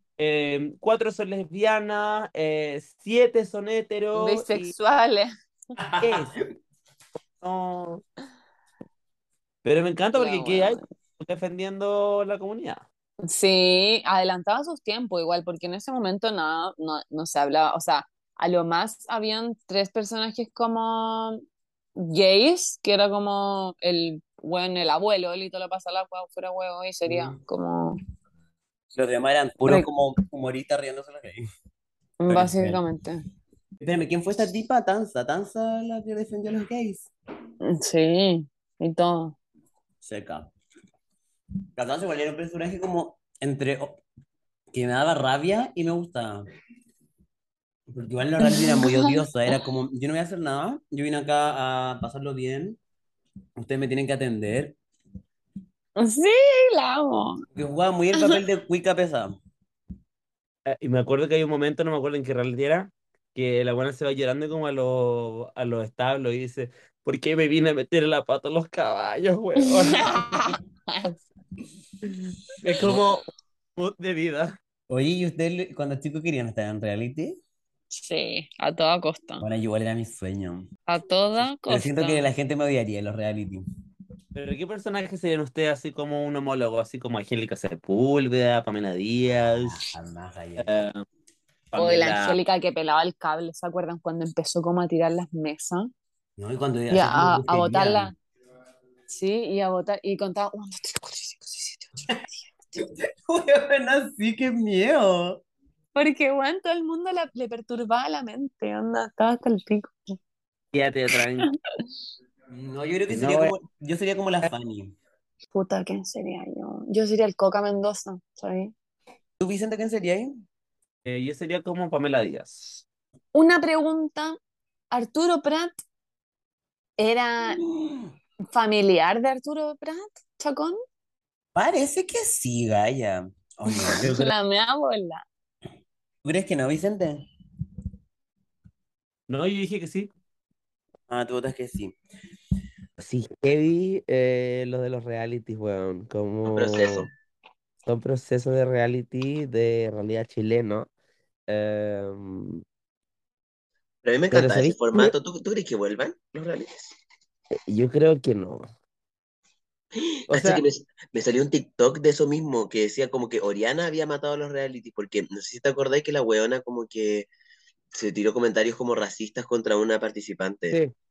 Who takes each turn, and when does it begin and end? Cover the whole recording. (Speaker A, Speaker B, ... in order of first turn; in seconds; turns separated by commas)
Speaker A: 0.2-4.7, Speaker B: 4.1-5.3, Speaker C: 5.8-6.3, Speaker A: 6.0-6.3, Speaker A: 7.4-8.0, Speaker A: 9.6-12.8, Speaker B: 10.1-10.8, Speaker B: 13.2-21.4, Speaker B: 21.9-28.0, Speaker C: 27.1-27.4, Speaker C: 28.9-31.4, Speaker B: 32.2-33.2, Speaker C: 32.3-32.8, Speaker C: 33.8-37.1, Speaker B: 37.6-39.4, Speaker C: 40.0-40.5, Speaker C: 41.8-44.0, Speaker C: 44.7-46.5, Speaker C: 47.9-52.8, Speaker B: 48.4-49.1, Speaker C: 53.6-54.8, Speaker B: 56.0-57.4, Speaker C: 57.5-59.4, Speaker A: 60.7-70.5, Speaker B: 69.6-71.1, Speaker A: 72.1-73.2, Speaker A: 73.8-74.5, Speaker C: 74.9-77.4, Speaker B: 77.9-79.4, Speaker C: 79.4-80.7, Speaker B: 80.9-82.2, Speaker C: 81.4-83.6, Speaker A: 84.3-89.8, Speaker C: 89.4-90.7, Speaker A: 90.6-91.0, Speaker A: 91.7-92.4, Speaker B: 91.7-95.9, Speaker C: 96.4-98.1, Speaker B: 96.9-98.1, Speaker B: 99.1-102.2, Speaker C: 102.8-105.4, Speaker B: 105.9-110.1, Speaker A: 110.7-111.5, Speaker C: 112.5-114.9, Speaker A: 113.1-113.5, Speaker B: 115.5-118.7, Speaker C: 119.4-120.4, Speaker A: 121.0-122.8, Speaker B: 123.3-124.4, Speaker B: 124.9-125.7, Speaker B: 127.0-127.6, Speaker C: 127.6-128.1, Speaker B: 128.5-130.8, Speaker C: 131.5-134.3, Speaker B: 133.7-135.2, Speaker C: 136.2-137.2, Speaker A: 139.3-140.1, Speaker C: 141.1-141.9, Speaker D: 143.0-147.1, Speaker E: 146.4-147.1, Speaker D: 147.8-150.9, Speaker D: 151.5-152.6, Speaker E: 154.0-156.9, Speaker D: 154.3-155.1, Speaker D: 157.7-158.7, Speaker E: 160.0-167.3, Speaker D: 160.3-160.6, Speaker E: 167.9-170.8